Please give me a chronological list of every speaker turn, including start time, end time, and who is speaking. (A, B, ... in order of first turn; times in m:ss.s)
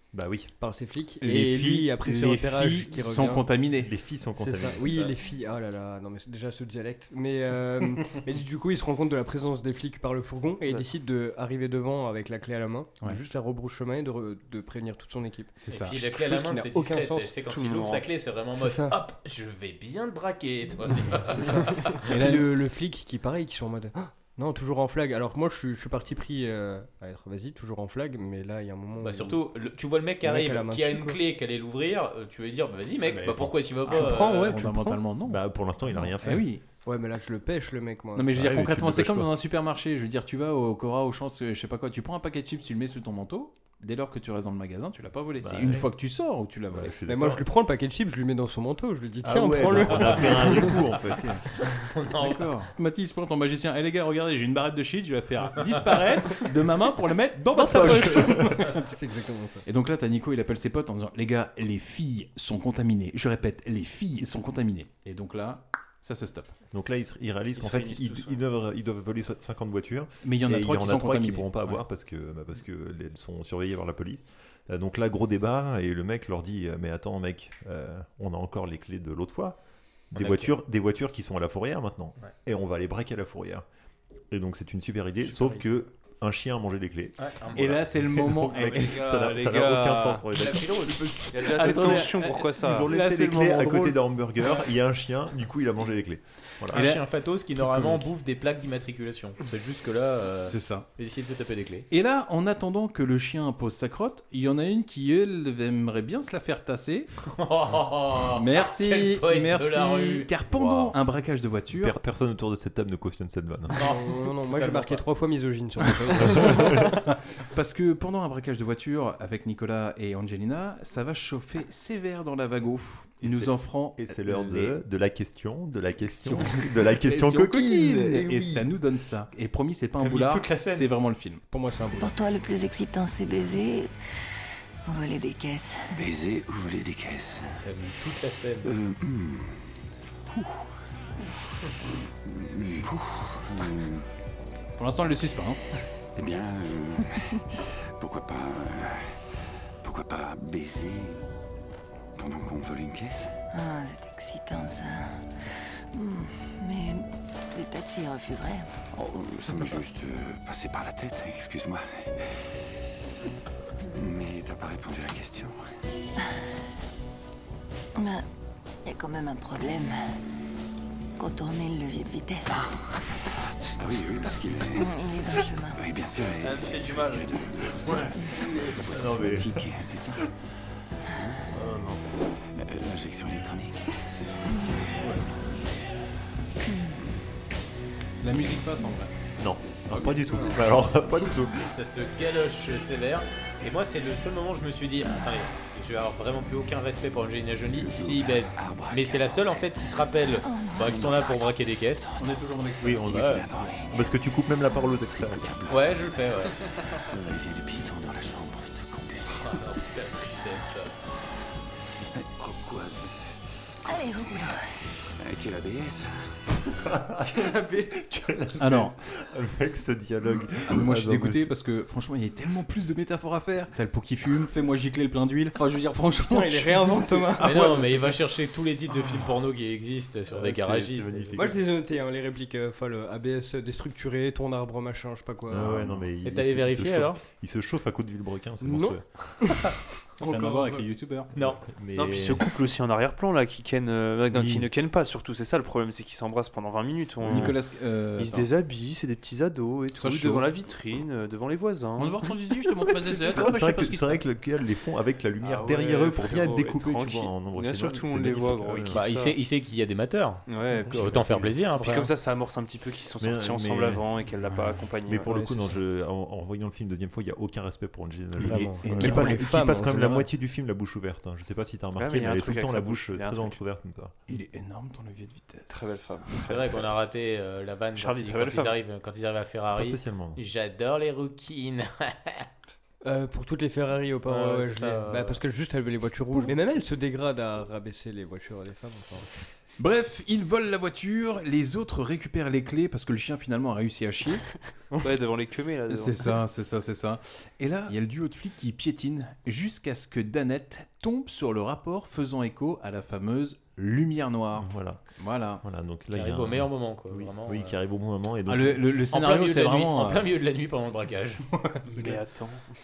0:00.1-0:00.5 A
0:00.6-0:03.5 B
0:01.2-0:03.9 C
0:03.8-0:05.2 A
0:04.4-0:17.4 B
0:15.6-0:16.0 C
0:15.7-0:22.0 D
0:17.4-0:18.0 E
0:18.5-0:19.0 B
0:21.3-0:29.4 B
0:22.0-0:22.5 C
0:29.0-0:34.6 D
0:30.2-0:31.2 B
0:33.1-0:33.6 A
0:33.8-0:36.6 C
0:33.9-0:35.0 B
0:35.2-0:36.5 A
0:36.8-0:38.3 B
0:38.2-0:46.9 C
0:38.3-0:39.3 A
0:45.4-0:45.9 A
0:46.7-0:47.4 A
0:47.0-0:50.8 B
0:49.2-0:51.4 A
0:49.8-0:50.3 C
0:51.1-0:51.4 C
0:51.6-0:52.5 D
0:52.2-0:58.9 C
0:57.5-0:59.6 B
0:59.6-1:06.5 C
1:06.7-1:19.6 A
1:07.6-1:08.4 E
1:10.2-1:11.8 C
1:20.1-1:23.6 A
1:20.2-1:20.5 D
1:24.3-1:27.2 A
1:27.2-1:27.8 D
1:27.5-1:29.1 C
1:27.9-1:36.8 A
1:28.6-1:30.2 E
1:30.3-1:31.0 D
1:31.3-1:32.9 E
1:31.6-1:34.0 C
1:36.7-1:41.9 D
1:36.7-1:38.0 C
1:40.5-1:40.9 C
1:41.9-1:47.1 C
1:47.3-1:50.8 D
1:48.4-1:52.0 C
1:50.5-1:50.9 A
1:51.7-1:53.8 A
1:53.7-1:57.0 B
1:53.7-1:55.0 D
1:56.4-1:56.7 A
1:57.5-2:04.8 C
2:03.2-2:08.7 A
2:06.1-2:11.4 C
2:10.0-2:10.9 D
2:11.5-2:12.2 B
2:11.9-2:13.9 F
2:14.9-2:15.8 F
2:15.9-2:17.6 G
2:17.6-2:18.7 D
2:18.6-2:19.6 G
2:20.3-2:20.6 G
2:22.2-2:24.0 G
2:24.8-2:25.6 C
2:26.2-2:29.2 G
2:29.8-2:31.2 G
2:32.2-2:33.3 G
2:33.5-2:35.0 F
2:35.9-2:37.0 F
2:37.5-2:38.6 F
2:38.9-2:42.4 G
2:43.9-2:45.6 G
2:48.0-2:48.2 F
2:48.8-2:50.0 F
2:51.2-2:52.6 F
2:53.8-3:00.3 G
2:54.7-2:55.7 F
2:58.8-2:59.7 A
3:01.1-3:01.4 G
3:01.5-3:02.0 A
3:02.6-3:04.0 G
3:05.0-3:05.3 C
3:08.2-3:09.1 C
3:09.4-3:11.7 A
3:11.6-3:22.1 D
3:17.6-3:19.8 G
3:20.4-3:21.5 F
3:20.8-3:21.3 G
3:21.9-3:22.4 G
3:22.2-3:23.8 C
3:22.8-3:25.5 A
3:22.9-3:24.1 G
3:23.1-3:23.4 D
3:24.9-3:26.2 G
3:25.7-3:26.6 D
3:27.0-3:29.6 G
3:29.4-3:30.9 D
3:32.2-3:33.1 G
3:33.9-3:34.5 G
3:33.9-3:34.5 F
3:35.2-3:36.3 G
3:36.8-3:41.5 A
3:38.6-3:39.0 C
3:40.7-3:47.4 C
3:46.2-3:48.1 B
3:47.4-3:51.4 D
3:50.3-3:51.6 A
3:51.4-3:55.8 B
3:55.5-3:59.7 A
3:56.2-3:57.2 D
3:58.6-3:59.7 B
4:00.2-4:01.3 C
4:01.3-4:02.5 A
4:01.3-4:01.6 D
4:02.0-4:12.3 E
4:07.2-4:08.5 C
4:09.9-4:10.5 C
4:12.0-4:14.2 C
4:13.2-4:19.0 A
4:15.4-4:19.4 E
4:18.9-4:22.1 D
4:20.5-4:21.1 E
4:20.8-4:21.6 A
4:21.7-4:25.7 E
4:23.2-4:34.1 A
4:25.3-4:25.6 B
4:28.4-4:29.9 C
4:28.4-4:30.2 B
4:32.0-4:33.6 E
4:34.3-4:36.8 C
4:35.7-4:37.0 E
4:36.4-4:42.5 D
4:37.9-4:38.8 E
4:39.7-4:40.4 A
4:43.0-4:49.4 B
4:44.3-4:45.4 D
4:49.8-4:54.5 C
4:55.0-4:56.4 E
4:55.9-5:05.6 C
5:04.6-5:08.8 A
5:06.1-5:07.8 D
5:08.5-5:10.3 C
5:09.1-5:11.4 D
5:11.6-5:12.2 C
5:11.9-5:12.7 E